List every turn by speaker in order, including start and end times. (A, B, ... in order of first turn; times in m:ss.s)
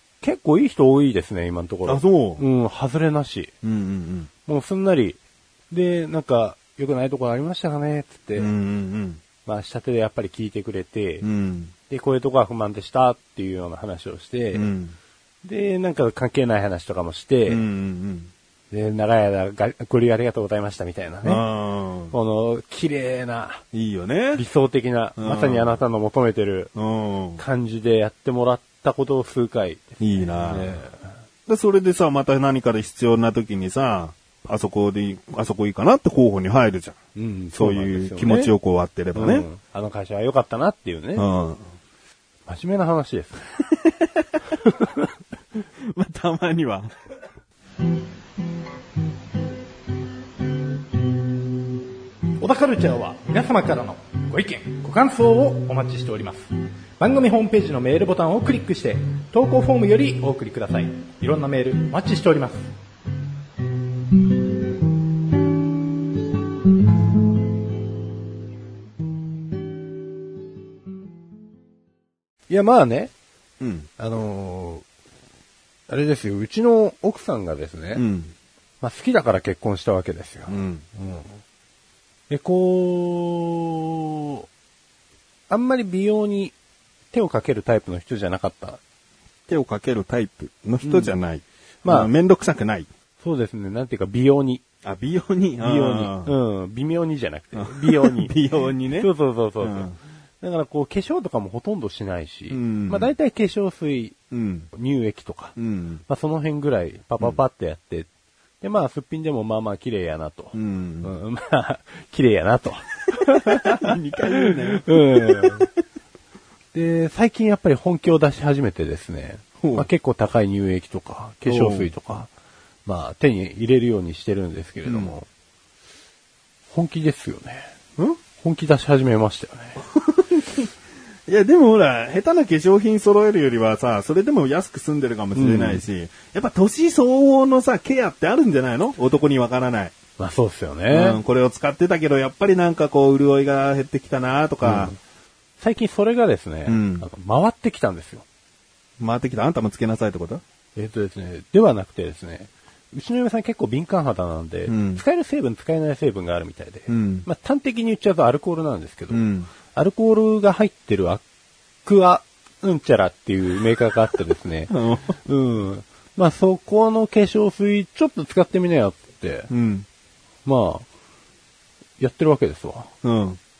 0:00.2-0:03.5 A
0:01.8-0:02.4 B
0:03.6-0:04.3 B
0:04.4-0:05.2 A
0:05.7-0:08.5 A
0:08.4-0:09.2 B
0:09.4-0:11.3 A
0:11.2-0:11.7 B
0:11.9-0:14.7 A
0:14.5-0:15.0 B
0:15.4-0:17.6 A
0:17.5-0:18.3 B
0:18.7-0:21.4 A
0:21.2-0:22.1 B
0:22.1-0:23.6 A
0:23.7-0:24.4 B
0:24.3-0:26.7 A
0:25.2-0:25.8 B
0:26.7-0:27.4 B
0:27.4-0:31.1 A
0:30.0-0:30.8 B
0:31.5-0:37.0 B
0:37.2-0:38.5 A
0:37.5-0:39.4 B
0:39.1-0:41.3 A
0:41.1-0:41.6 B
0:42.4-0:43.5 A
0:43.6-0:44.6 B
0:44.6-0:45.1 A
0:45.8-0:46.9 B
0:52.4-0:56.5 C
0:57.0-1:02.7 C
1:12.5-1:13.1 A
1:13.6-1:13.9 B
1:14.0-1:14.8 A
1:15.9-1:18.0 A
1:17.9-1:18.3 B
1:18.8-1:21.3 A
1:20.5-1:20.8 B
1:22.3-1:24.4 A
1:25.5-1:26.5 A
1:27.1-1:28.8 A
1:29.5-1:32.9 B
1:30.8-1:31.1 A
1:31.8-1:32.1 A
1:33.2-1:34.6 A
1:34.8-1:36.3 B
1:35.6-1:38.3 A
1:37.5-1:39.1 B
1:38.9-1:44.2 A
1:39.6-1:40.0 B
1:42.5-1:43.1 B
1:44.3-1:44.7 B
1:44.7-1:45.6 A
1:45.6-1:46.0 B
1:46.1-1:48.1 A
1:48.6-1:55.7 A
1:50.5-1:51.1 B
1:53.2-1:55.7 B
1:56.7-2:02.3 A
1:59.6-1:59.9 B
2:01.4-2:01.9 B
2:02.8-2:05.3 A
2:04.8-2:05.2 B
2:06.7-2:07.7 A
2:08.4-2:09.8 A
2:09.9-2:10.7 B
2:11.3-2:20.0 B
2:15.3-2:15.8 A
2:20.2-2:21.2 A
2:20.9-2:24.9 B
2:24.6-2:25.0 A
2:25.6-2:28.2 A
2:26.6-2:27.1 B
2:29.0-2:30.4 B
2:30.8-2:41.2 A
2:34.7-2:35.0 B
2:36.9-2:37.3 B
2:39.1-2:39.5 B
2:41.8-2:49.5 A
2:44.7-2:45.2 B
2:49.5-2:49.9 B
2:50.4-2:50.8 A
2:52.0-2:52.9 A
2:53.0-2:53.4 B